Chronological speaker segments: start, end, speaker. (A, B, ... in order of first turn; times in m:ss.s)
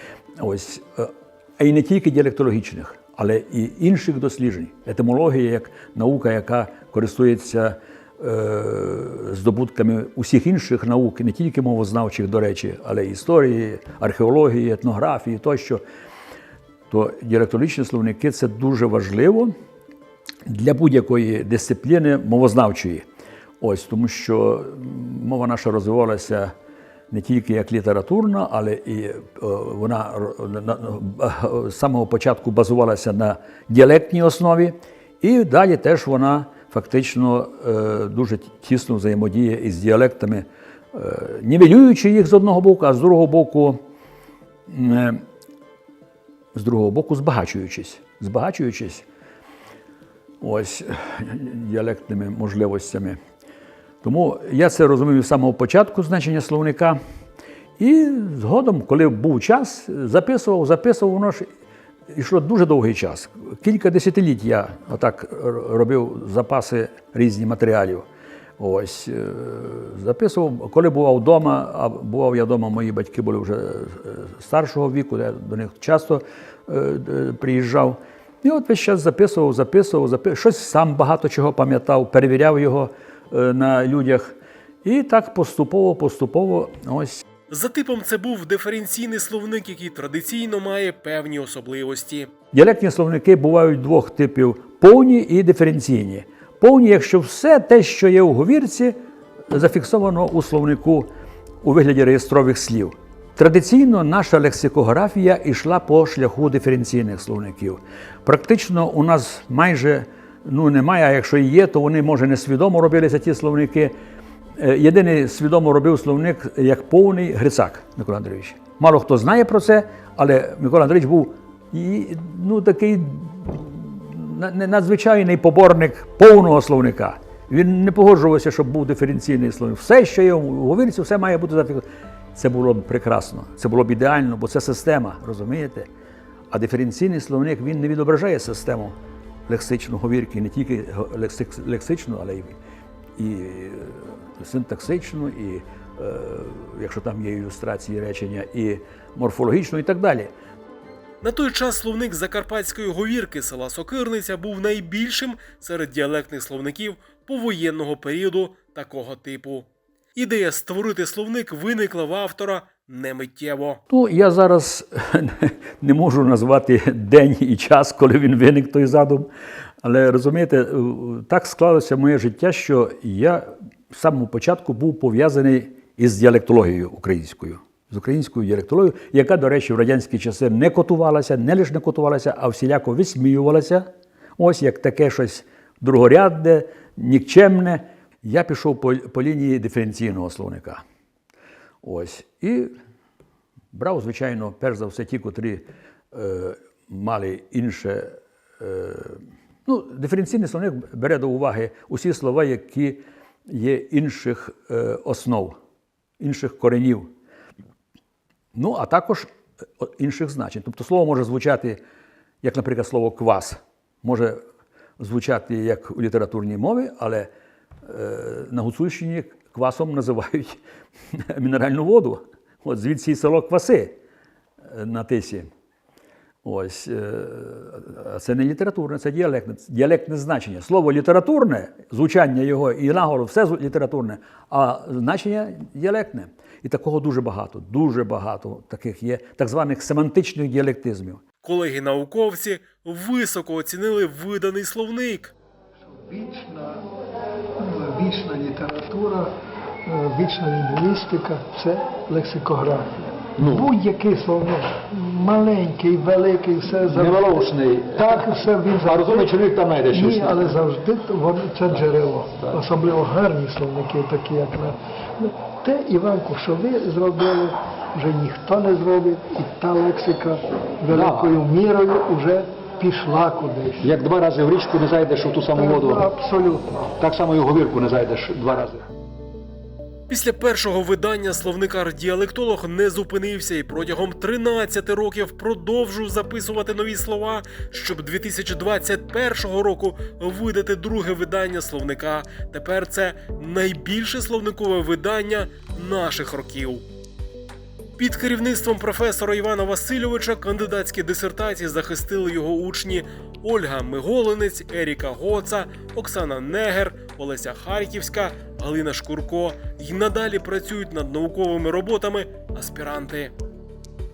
0:00.4-0:15.8 A
0:16.9-0:19.5 A
0:20.5-0:23.0 A
0:23.6-0:26.5 A
0:27.1-0:43.8 A
0:44.7-0:45.2 A
0:46.5-0:49.0 A
0:50.4-0:53.2 A
0:54.0-0:57.0 A
0:57.8-1:01.5 A
1:02.1-1:08.0 A
1:08.6-1:27.2 A
1:27.5-1:32.3 B
1:32.5-1:39.0 A
1:39.5-1:41.1 A
1:41.6-1:53.9 A
1:54.6-2:15.9 A
2:16.5-2:18.9 A
2:19.5-2:22.6 A
2:23.2-2:30.3 A
2:31.2-2:43.8 B
2:43.9-2:49.3 A
2:49.8-3:10.8 A
3:11.8-3:12.8 A
3:13.7-3:25.6 A
3:26.2-3:27.1 A
3:28.5-3:31.8 A
3:32.4-3:34.4 A
3:35.0-3:37.3 A
3:37.8-3:40.6 A
3:41.1-3:44.0 A
3:44.6-3:45.5 A
3:46.4-4:01.2 A
4:01.4-4:05.3 B
4:05.8-4:06.9 C
4:07.6-4:09.3 C
4:09.9-4:19.3 C
4:13.4-4:13.7 D
4:16.8-4:20.6 D
4:19.9-4:33.9 C
4:30.9-4:31.4 D
4:33.8-4:36.1 D
4:35.5-4:36.9 C
4:36.9-4:38.9 D
4:40.1-4:56.8 B
4:58.0-5:13.3 B